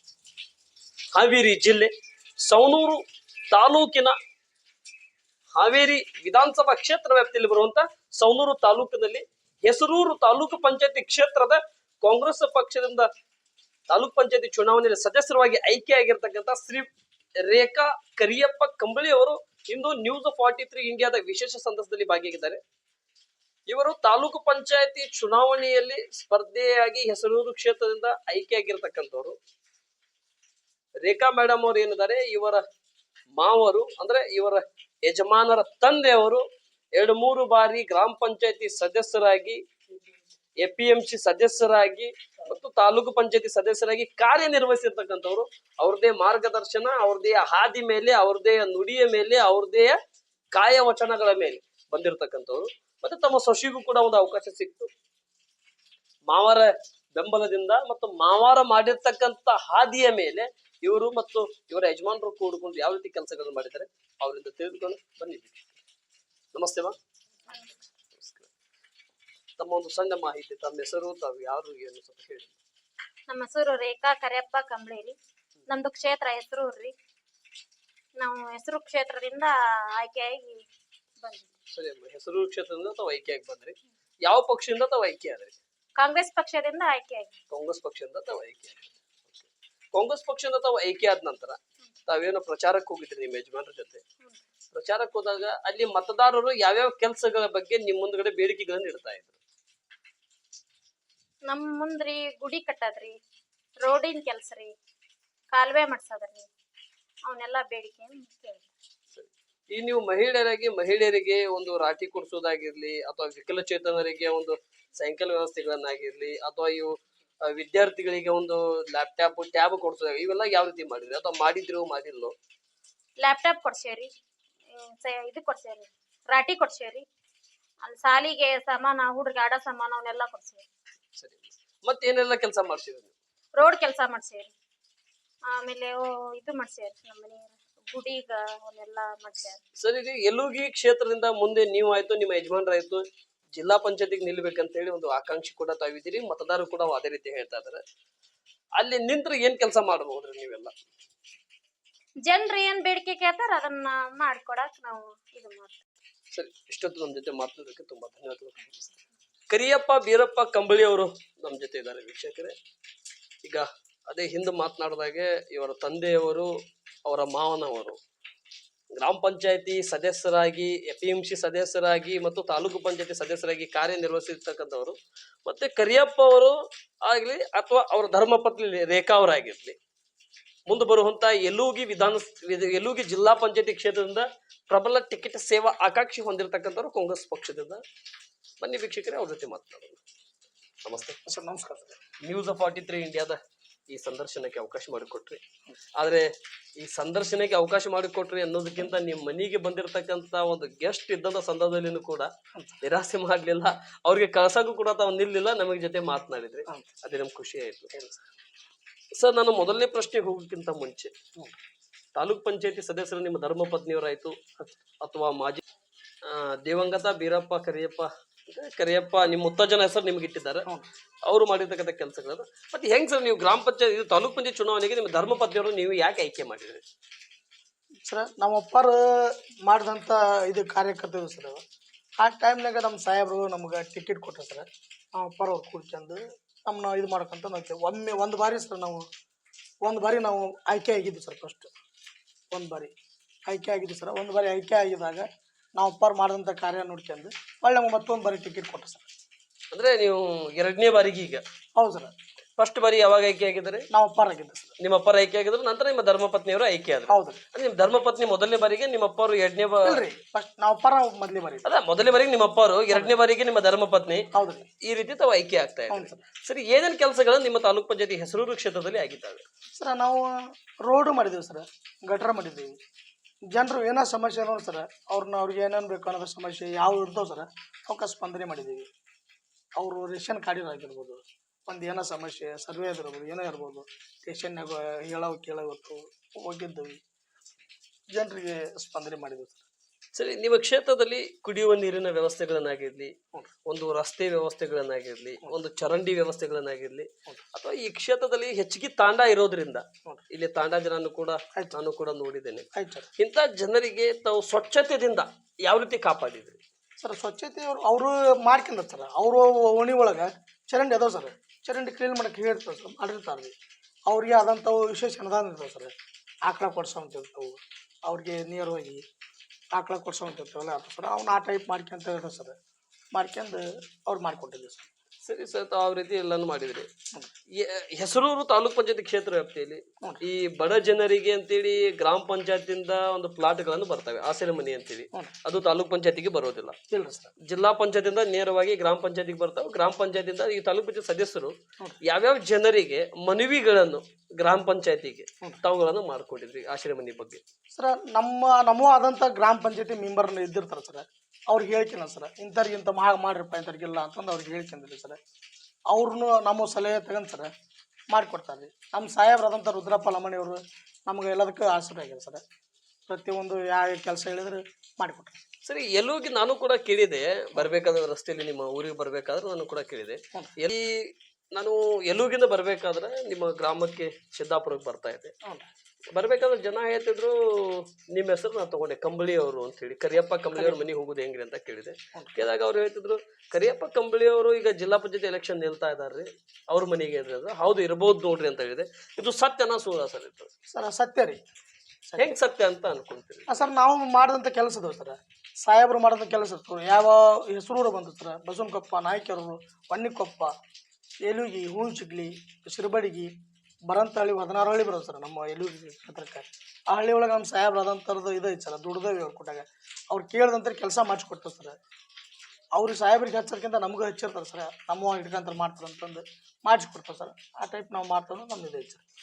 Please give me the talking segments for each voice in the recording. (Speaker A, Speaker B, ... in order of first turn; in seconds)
Speaker A: 1.1-4.2, 5.5-13.1, 13.9-16.9, 17.4-22.6, 23.7-29.4, 31.0-32.6, 33.4-36.4, 37.0-39.6, 40.6-50.0, 50.5-54.9, 56.3-65.8, 66.5-67.0, 68.1-68.5, 69.6-72.6, 81.7-85.6, 87.5-94.0, 94.7-99.4, 109.1-122.3, 131.2-133.1, 139.8-147.8, 148.8-150.7, 156.3-158.9, 159.5-162.5, 163.4-166.5, 167.1-168.0, 168.9-179.8, 180.7-187.8, 188.6-190.0, 190.8-191.2, 192.2-195.4, 196.0-207.9, 209.2-211.1, 212.1-214.3, 215.0-215.6, 216.2-220.7, 221.2-226.8, 249.7-251.4, 252.6-253.8, 254.8-260.0, 261.6-264.3, 264.8-269.4, 290.1-293.1, 293.7-302.6, 303.2-306.6, 325.2-326.9, 327.5-336.8, 337.4-347.4, 365.6-375.3, 376.1-390.5, 392.2-393.6
Speaker B: 73.3-75.2, 75.7-76.9, 78.2-80.6, 81.2-81.5, 86.0-87.3, 101.5-103.1, 103.8-104.7, 105.5-106.5, 107.3-108.7, 123.2-124.1, 124.8-127.0, 127.8-130.7, 133.6-134.5, 135.5-139.6, 152.2-155.8
Speaker C: 191.2-191.9, 207.9-208.2, 228.1-231.6, 232.2-239.1, 239.8-241.7, 242.5-242.9, 243.5-245.2, 245.8-249.1, 251.8-252.1, 253.9-254.7, 257.1-257.4, 259.8-261.6, 264.3-264.7, 265.9-266.2, 269.8-272.8, 273.5-278.9, 279.8-287.0, 288.1-289.6, 302.8-303.1, 307.0-313.5, 314.1-315.9, 316.4-319.0, 319.7-322.6, 323.1-324.9, 336.9-337.3, 347.8-355.2, 355.9-357.5, 358.1-362.4, 363.1-365.4, 380.5-380.8, 390.7-391.4, 393.5-400.5, 401.2-403.3, 403.9-411.8, 412.8-419.0